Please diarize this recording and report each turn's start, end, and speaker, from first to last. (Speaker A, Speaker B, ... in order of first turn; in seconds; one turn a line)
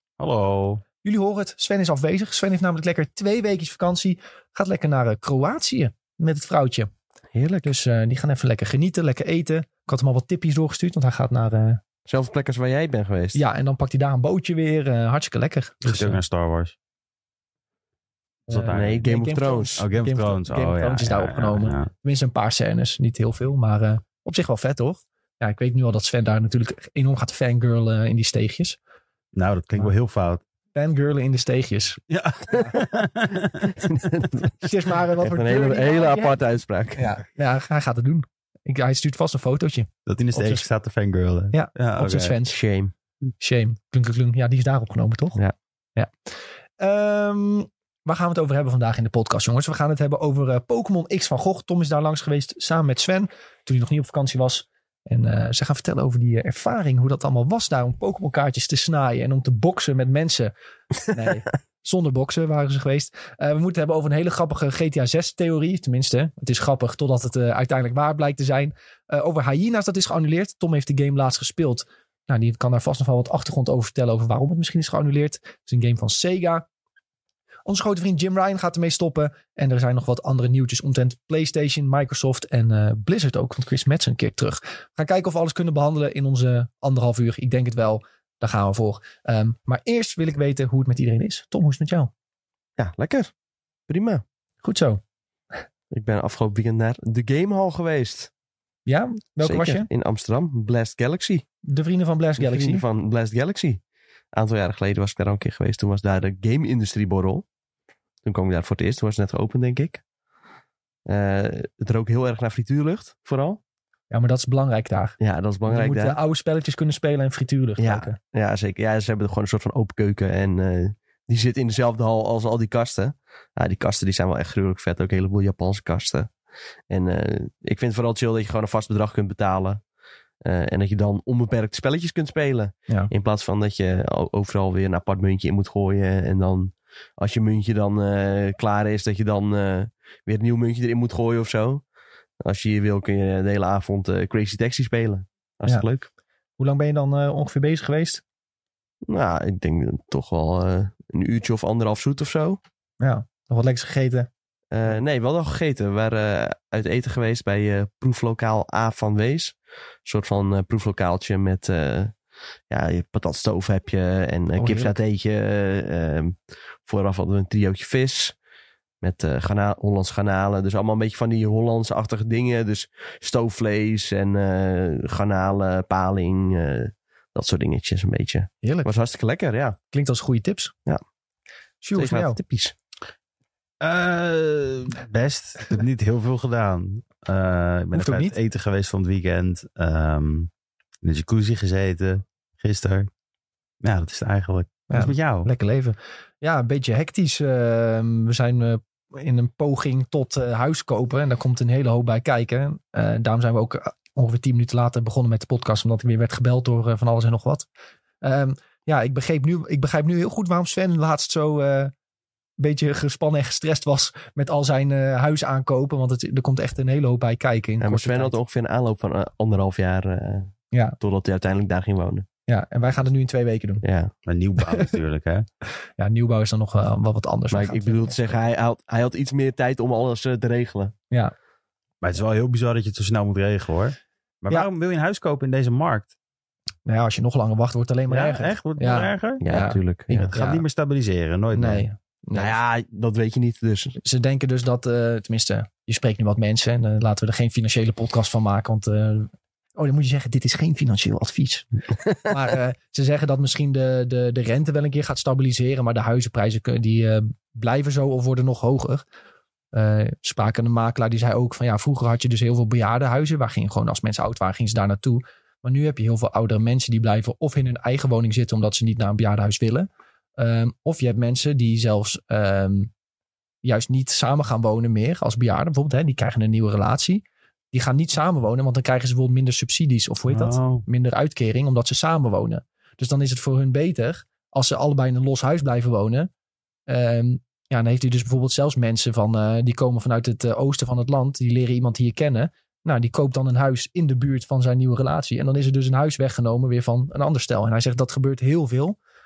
Speaker A: 0.2-0.8
Speaker B: 1.0-6.9
Speaker C: 7.3-7.7
Speaker B: 7.6-11.8
Speaker C: 12.1-13.4
Speaker B: 13.3-16.2
Speaker A: 15.8-16.8
Speaker A: 18.5-19.1
Speaker B: 18.5-28.8
Speaker C: 18.7-19.8
Speaker A: 19.8-21.9
Speaker A: 29.3-30.4
Speaker B: 30.8-32.0
Speaker A: 32.1-33.8
Speaker B: 32.5-32.8
Speaker C: 33.6-34.7
Speaker B: 34.6-36.4
Speaker C: 35.2-37.1
Speaker B: 37.0-40.6
Speaker A: 40.1-42.4
Speaker B: 41.5-42.6
Speaker C: 42.5-42.9
Speaker B: 43.4-45.4
Speaker B: 46.8-76.7
Speaker B: 77.7-92.1
Speaker C: 92.8-93.3
Speaker C: 93.9-94.2
Speaker B: 94.6-95.0
Speaker C: 95.9-98.3
Speaker B: 98.9-99.9
Speaker C: 99.4-101.4
Speaker B: 101.7-102.8
Speaker C: 102.4-103.8
Speaker C: 104.3-107.4
Speaker C: 108.2-110.0
Speaker C: 111.1-113.6
Speaker B: 114.1-115.2
Speaker C: 115.2-116.2
Speaker B: 115.7-118.2
Speaker C: 117.8-126.3
Speaker C: 126.9-129.8
Speaker C: 130.4-141.8
Speaker C: 142.4-146.1
Speaker B: 146.6-148.2
Speaker C: 149.1-152.6
Speaker B: 153.0-154.3
Speaker C: 154.7-162.1
Speaker C: 162.7-166.3
Speaker B: 164.6-164.9
Speaker C: 166.9-168.3
Speaker C: 169.0-179.8
Speaker B: 178.6-178.9
Speaker B: 179.9-180.7
Speaker B: 181.8-182.4
Speaker C: 181.9-182.8
Speaker A: 183.8-190.5
Speaker B: 187.9-188.3
Speaker A: 191.0-193.1
Speaker A: 193.8-195.5
Speaker B: 194.9-207.7
Speaker B: 208.2-211.9
Speaker B: 212.6-218.4
Speaker C: 217.8-222.3
Speaker B: 222.5-223.8
Speaker C: 223.8-224.1
Speaker A: 224.3-225.4
Speaker B: 226.0-228.3
Speaker C: 227.5-230.9
Speaker A: 232.0-236.1
Speaker B: 236.9-240.7
Speaker A: 238.1-239.4
Speaker C: 239.4-240.3
Speaker A: 240.3-241.9
Speaker B: 241.5-242.6
Speaker C: 242.4-244.0
Speaker B: 244.0-251.7
Speaker C: 252.1-252.3
Speaker B: 252.2-259.1
Speaker B: 259.7-272.9
Speaker B: 273.6-286.3
Speaker A: 280.3-280.9
Speaker B: 286.9-299.0